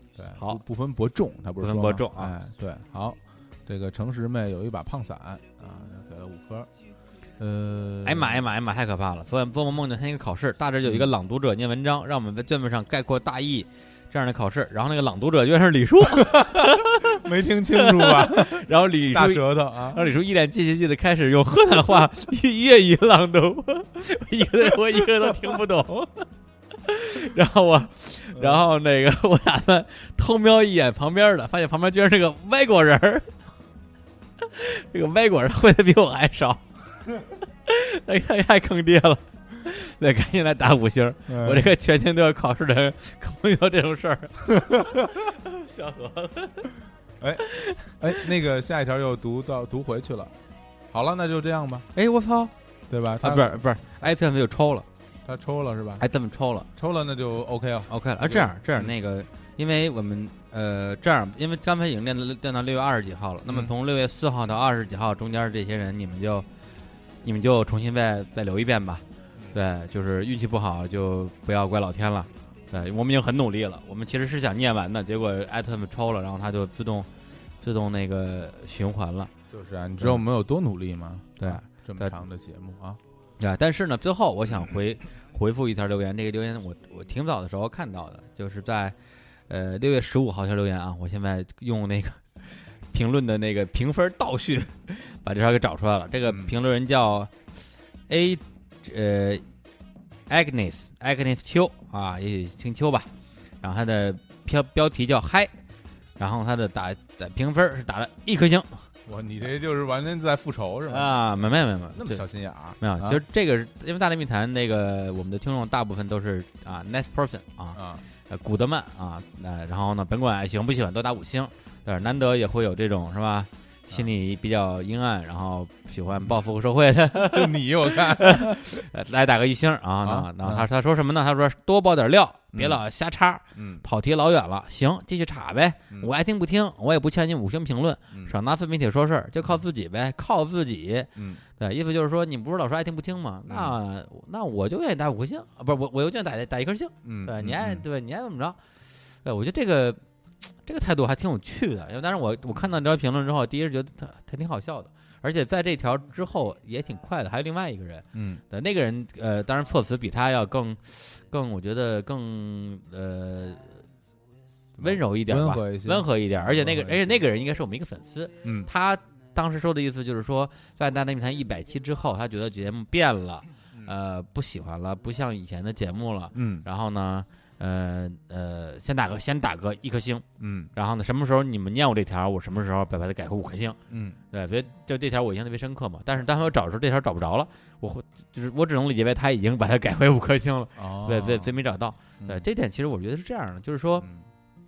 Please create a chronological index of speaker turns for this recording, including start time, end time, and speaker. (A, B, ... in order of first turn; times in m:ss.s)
0:00.2-0:06.7 A
0:00.4-0:00.6 B
0:01.6-0:02.4 B
0:07.4-0:08.4 A
0:08.0-0:26.3 B
0:10.8-0:11.1 A
0:16.2-0:20.1 A
0:26.8-0:33.3 B
0:28.3-0:28.7 A
0:34.4-0:36.6 B
0:37.7-0:44.4 B
0:41.3-0:41.7 A
0:44.6-0:45.1 A
0:45.1-0:46.7 B
0:47.2-0:47.5 A
0:47.5-0:48.0 B
0:48.0-0:50.4 A
0:50.9-0:51.9 A
0:52.0-0:52.5 B
0:52.9-0:53.6 A
0:53.2-0:54.9 B
0:55.2-0:56.1 A
0:56.0-0:56.7 B
0:56.8-0:58.9 A
0:57.9-1:06.5 B
1:07.2-1:17.1 B
1:17.6-1:19.3 B
1:19.5-1:23.0 A
1:21.4-1:22.2 B
1:23.4-1:29.0 B
1:29.5-1:37.3 B
1:36.3-1:36.5 A
1:38.1-1:39.4 B
1:40.3-1:43.1 B
1:43.6-1:45.5 B
1:46.2-1:48.9 B
1:49.1-1:53.2 A
1:50.9-1:52.2 B
1:52.8-2:28.6 B
1:57.8-1:58.1 A
2:07.3-2:08.8 A
2:10.0-2:10.7 A
2:12.5-2:12.8 A
2:13.5-2:13.8 A
2:21.2-2:21.4 A
2:23.5-2:23.8 A
2:27.0-2:27.8 A
2:29.2-2:30.0 B
2:30.6-2:43.8 B
2:38.1-2:38.4 A
2:44.8-2:47.2 A
2:44.8-3:03.8 B
2:48.4-2:48.7 A
2:56.3-2:56.6 A
3:00.4-3:00.7 A
3:03.9-3:04.2 A
3:04.3-3:14.1 B
3:10.8-3:11.6 A